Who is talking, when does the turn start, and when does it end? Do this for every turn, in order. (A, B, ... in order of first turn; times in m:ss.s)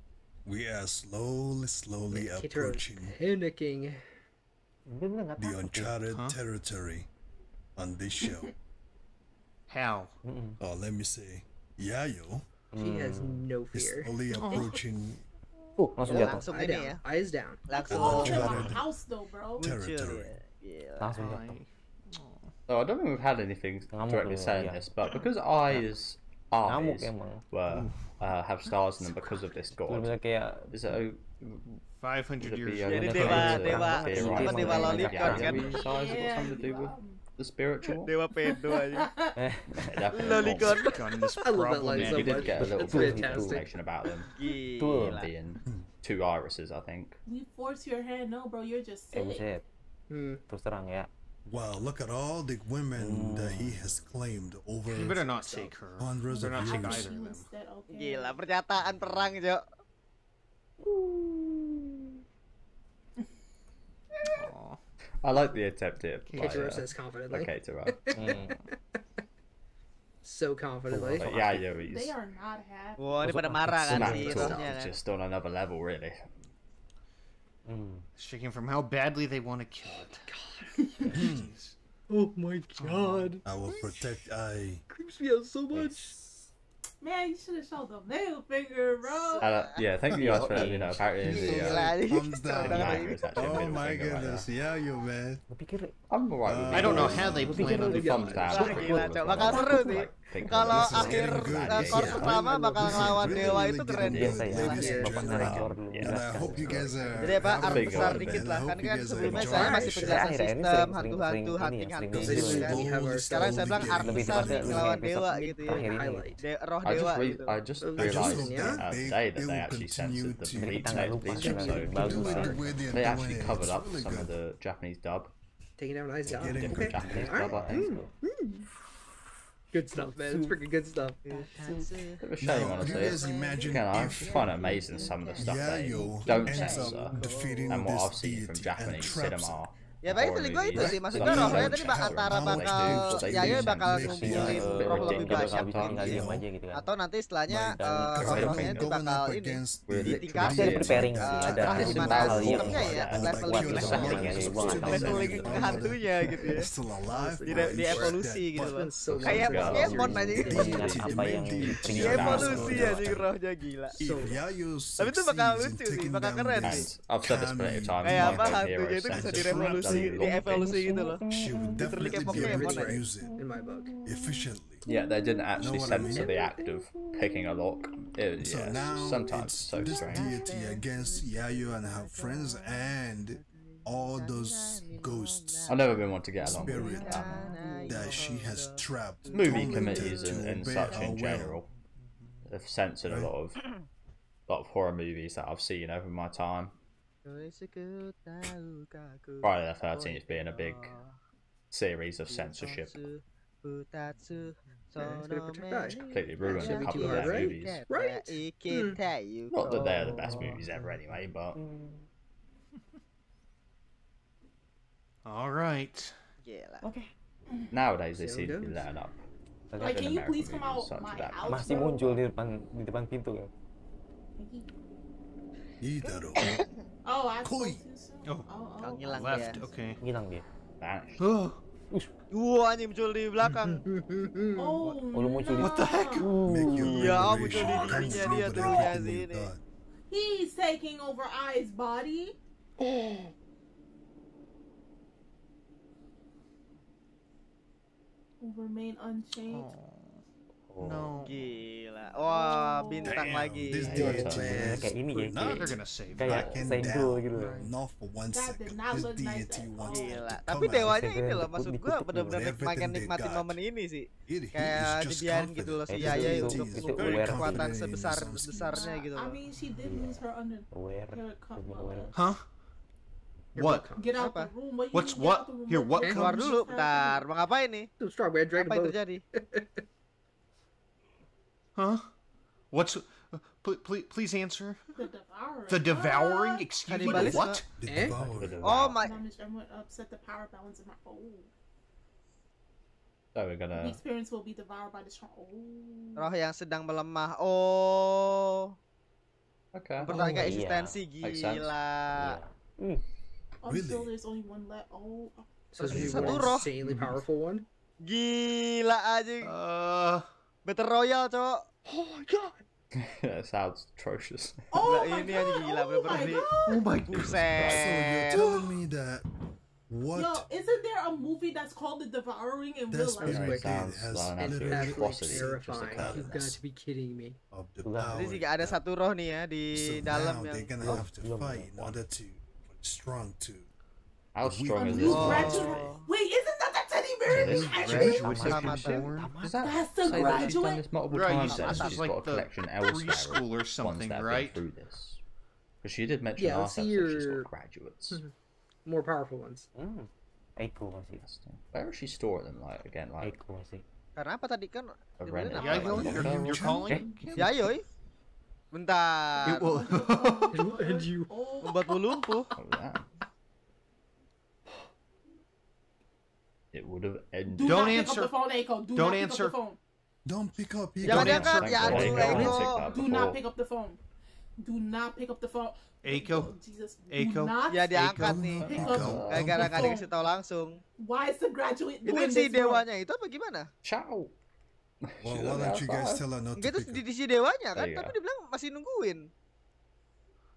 0:00.4-0:03.2 A
0:02.1-0:04.0 B
0:04.9-0:06.0 C
0:05.4-0:07.1 A
0:06.1-0:06.4 D
0:07.8-0:08.5 A
0:08.2-0:08.5 E
0:09.7-0:10.2 D
0:10.2-0:10.6 C
0:10.6-0:12.5 A
0:12.7-0:13.5 C
0:12.8-0:14.2 B
0:13.7-0:15.2 A
0:14.3-0:14.8 D
0:15.8-0:16.6 C
0:16.0-0:17.7 B
0:16.1-0:17.0 F
0:17.7-0:18.7 F
0:17.7-0:19.7 E
0:17.9-0:18.9 A
0:19.6-0:20.4 A
0:19.6-0:21.3 F
0:21.0-0:21.6 C
0:21.2-0:22.5 D
0:22.7-0:30.2 G
0:23.9-0:24.8 C
0:26.6-0:27.4 C
0:28.7-0:29.4 D
0:29.8-0:30.7 C
0:30.7-0:31.8 G
0:32.0-0:33.8 D
0:32.4-0:38.1 G
0:32.9-0:36.2 F
0:33.1-0:35.8 C
0:35.5-0:37.2 E
0:38.0-0:39.4 E
0:38.1-0:39.1 F
0:39.4-0:39.9 C
0:39.7-0:41.0 G
0:40.2-0:43.7 B
0:40.2-0:41.0 F
0:40.8-0:42.7 D
0:42.0-0:44.3 G
0:42.6-0:43.6 C
0:44.2-0:45.3 F
0:44.8-0:45.2 C
0:44.9-0:47.2 G
0:47.2-0:49.4 E
0:49.1-0:49.6 C
0:50.1-0:50.4 B
0:50.5-0:51.1 C
0:51.4-0:57.1 A
0:53.0-0:53.8 C
0:54.9-0:57.5 D
0:56.3-0:58.4 E
0:57.9-0:59.6 F
0:58.9-0:59.2 D
1:00.9-1:01.8 B
1:04.3-1:04.8 D
1:05.2-1:08.2 G
1:06.3-1:06.8 D
1:06.4-1:08.7 B
1:08.1-1:08.5 C
1:10.2-1:11.3 B
1:10.9-1:11.7 C
1:11.2-1:12.1 G
1:11.8-1:13.3 E
1:13.0-1:14.9 F
1:13.2-1:14.5 C
1:13.9-1:16.3 G
1:14.0-1:14.8 B
1:17.7-1:18.0 C
1:18.2-1:20.3 D
1:20.0-1:21.1 B
1:21.0-1:21.8 D
1:21.1-1:21.5 A
1:22.1-1:24.0 B
1:22.8-1:23.3 D
1:23.4-1:24.8 A
1:24.9-1:26.5 B
1:27.0-1:29.5 E
1:29.0-1:29.8 F
1:29.4-1:32.0 G
1:30.1-1:35.4 A
1:30.1-1:31.0 C
1:31.3-1:33.8 F
1:32.6-1:34.5 G
1:35.5-1:35.9 C
1:36.1-1:44.5 G
1:36.4-1:37.6 A
1:36.7-1:39.0 D
1:37.0-1:39.1 B
1:37.0-1:39.6 C
1:38.5-1:44.8 F
1:39.4-1:40.1 E
1:40.7-1:50.3 A
1:40.9-1:41.3 C
1:41.8-1:42.8 B
1:44.0-1:46.9 C
1:44.5-1:45.5 B
1:45.2-1:48.5 G
1:47.2-1:57.6 F
1:49.2-1:49.8 G
1:49.4-1:50.2 B
1:49.9-1:52.8 C
1:52.1-1:55.0 A
1:52.2-1:53.9 B
1:53.8-1:56.3 C
1:55.7-1:56.4 B
1:56.8-2:05.3 G
1:57.8-1:58.9 B
1:58.0-2:04.3 A
2:00.5-2:02.6 C
2:01.3-2:02.6 B
2:05.8-2:08.7 B
2:06.2-2:07.8 G
2:06.4-2:07.4 A
2:07.0-2:08.1 C
2:09.7-2:11.8 B
2:10.1-2:10.6 F
2:11.2-2:17.8 F
2:11.4-2:11.8 C
2:12.2-2:17.2 G
2:12.4-2:14.7 A
2:15.4-2:19.6 A
2:16.2-2:17.3 B
2:17.7-2:26.2 G
2:20.0-2:26.2 F
2:20.7-2:24.8 A
2:21.1-2:21.7 C
2:24.0-2:26.9 C
2:25.9-2:26.5 A
2:26.7-2:36.7 F
2:27.5-2:28.7 C
2:28.1-2:43.2 A
2:28.2-2:28.9 G
2:29.9-2:35.3 G
2:30.4-2:35.9 C
2:37.1-2:42.6 B
2:37.4-2:40.8 F
2:39.2-2:40.3 G
2:40.1-2:43.0 C
2:41.8-2:43.3 G
2:42.0-2:44.0 F
2:43.9-2:44.4 B
2:44.0-2:50.7 A
2:45.0-2:46.9 F
2:46.6-2:50.9 G
2:48.0-2:51.2 F
2:50.8-2:51.8 C
2:51.3-2:53.4 A
2:51.6-2:51.9 E
2:51.8-2:53.0 F
2:52.3-2:53.9 B
2:53.2-2:55.5 E
2:54.0-2:54.8 A
2:54.8-3:00.3 G
2:55.6-2:56.3 A
2:55.6-2:56.7 B
2:58.4-3:05.7 A
2:59.8-3:02.9 F
3:03.4-3:11.1 F
3:05.7-3:07.6 G
3:06.4-3:11.6 A
3:07.7-3:08.2 B
3:09.3-3:11.7 G
3:12.4-3:13.6 G
3:13.0-3:13.3 A
3:14.5-3:16.8 G
3:17.2-3:21.1 F
3:19.4-3:20.9 G
3:21.7-3:23.0 G
3:22.3-3:30.2 F
3:25.0-3:29.0 B
3:26.1-3:27.8 G
3:29.5-3:31.6 G
3:29.7-3:30.9 C
3:31.5-3:32.1 C
3:35.2-3:36.2 D
3:36.4-3:36.8 F
3:36.8-3:37.1 C
3:37.5-3:37.8 E
3:37.7-3:39.2 G
3:38.1-3:38.9 B
3:39.7-3:40.1 C
3:39.8-3:42.2 E
3:39.8-3:41.9 G
3:41.4-3:43.5 C
3:44.4-3:44.7 E
3:45.8-3:46.6 A
3:46.1-3:46.6 F
3:47.0-3:49.3 E
3:47.4-3:47.8 A
3:48.2-3:50.0 D
3:48.8-3:49.6 F
3:50.0-3:50.4 C
3:50.8-3:51.3 G
3:51.2-3:51.6 D
3:52.3-3:53.8 F
3:53.5-3:54.8 B
3:54.6-3:56.4 E
3:55.1-3:57.5 C
3:55.6-3:56.5 D
3:56.4-3:59.6 A
3:56.7-3:59.5 F
3:57.5-3:58.9 E
4:00.1-4:02.4 E
4:02.8-4:03.3 B
4:08.4-4:09.7 E
4:09.4-4:10.2 D
4:10.7-4:11.1 C
4:10.8-4:11.4 D
4:11.3-4:14.0 F
4:12.1-4:13.2 E
4:13.0-4:21.1 A
4:13.8-4:15.6 B
4:13.9-4:17.6 C
4:13.9-4:14.7 G
4:15.4-4:16.4 D
4:16.3-4:16.8 G
4:17.3-4:17.7 B
4:18.3-4:20.3 E
4:19.8-4:29.4 F
4:20.6-4:22.5 C
4:22.2-4:23.6 A
4:24.3-4:28.9 A
4:25.9-4:27.8 C
4:28.6-4:32.2 E
4:29.8-4:32.1 C
4:32.1-4:32.5 D
4:33.6-4:34.2 B
4:33.6-4:33.9 D
4:34.0-4:37.3 E
4:34.2-4:34.5 F
4:34.9-4:36.5 D
4:36.0-4:37.9 F
4:38.0-4:39.8 B
4:38.6-4:39.2 F
4:41.8-4:42.1 D
4:42.7-4:45.0 D
4:45.0-4:47.4 E
4:45.7-4:47.7 D
4:46.9-4:47.7 F
4:47.2-4:48.6 A
4:47.8-4:48.2 B
4:48.0-4:49.0 G
4:48.6-4:49.2 F
4:49.0-4:51.5 E
4:53.3-4:54.0 G
4:53.7-4:56.3 E
4:56.2-4:58.7 F
4:59.7-5:00.1 G
5:00.0-5:02.4 F
5:00.1-5:00.6 B
5:00.3-5:01.0 C
5:01.2-5:01.7 G
5:02.1-5:03.0 C
5:03.6-5:05.7 E
5:03.6-5:04.1 A
5:05.7-5:07.7 B
5:05.8-5:06.5 G
5:05.8-5:06.7 F
5:06.8-5:07.2 D
5:08.0-5:09.5 F
5:09.4-5:10.3 D
5:10.6-5:11.7 F
5:11.9-5:12.6 B
5:12.9-5:14.7 G
5:14.7-5:17.0 E
5:14.8-5:18.4 F
5:16.6-5:17.6 D
5:17.1-5:18.0 G
5:17.6-5:19.3 A
5:18.4-5:18.6 E
5:19.9-5:20.5 A
5:20.2-5:23.4 E
5:22.9-5:26.5 A
5:23.2-5:26.6 G
5:23.3-5:23.8 B
5:24.4-5:27.4 B
5:27.5-5:28.8 A
5:27.8-5:28.3 C
5:28.1-5:30.7 F
5:29.7-5:33.7 A
5:30.8-5:32.0 C
5:34.3-5:36.0 G
5:34.4-5:35.7 A
5:34.7-5:38.5 E
5:35.0-5:36.0 F
5:37.3-5:38.3 G
5:37.4-5:40.6 D
5:37.8-5:39.1 F
5:38.2-5:39.5 C
5:39.4-5:45.2 G
5:39.6-5:40.9 E
5:41.1-5:44.6 D
5:41.4-5:42.0 F
5:45.8-5:48.2 G
5:46.4-5:47.5 B
5:48.8-5:49.7 B
5:49.8-5:51.2 C
5:51.2-5:53.4 G
5:53.2-5:53.8 C
5:54.2-5:56.3 F
5:55.2-5:56.8 G
5:55.5-5:57.7 D
5:55.9-5:57.4 A
5:57.4-5:57.8 F
5:58.7-5:59.9 F
5:59.4-6:02.3 E
5:59.4-6:01.4 B
5:59.8-6:00.5 D
6:01.6-6:02.5 F
6:02.6-6:03.1 G
6:06.7-6:08.2 G
6:07.5-6:09.8 E
6:07.6-6:09.6 D
6:10.2-6:12.3 A
6:11.0-6:12.6 D
6:11.0-6:12.9 F
6:11.1-6:13.4 G
6:11.8-6:12.6 C
6:12.8-6:14.0 E
6:14.6-6:18.0 E
6:16.0-6:16.6 D
6:17.1-6:18.5 D
6:17.7-6:20.8 F
6:18.2-6:20.0 A
6:18.6-6:19.7 G
6:18.6-6:20.1 E
6:21.0-6:22.9 E
6:22.0-6:23.7 F
6:23.8-6:24.4 G
6:25.0-6:26.2 G
6:25.2-6:27.0 A
6:26.6-6:29.3 F
6:27.8-6:28.2 G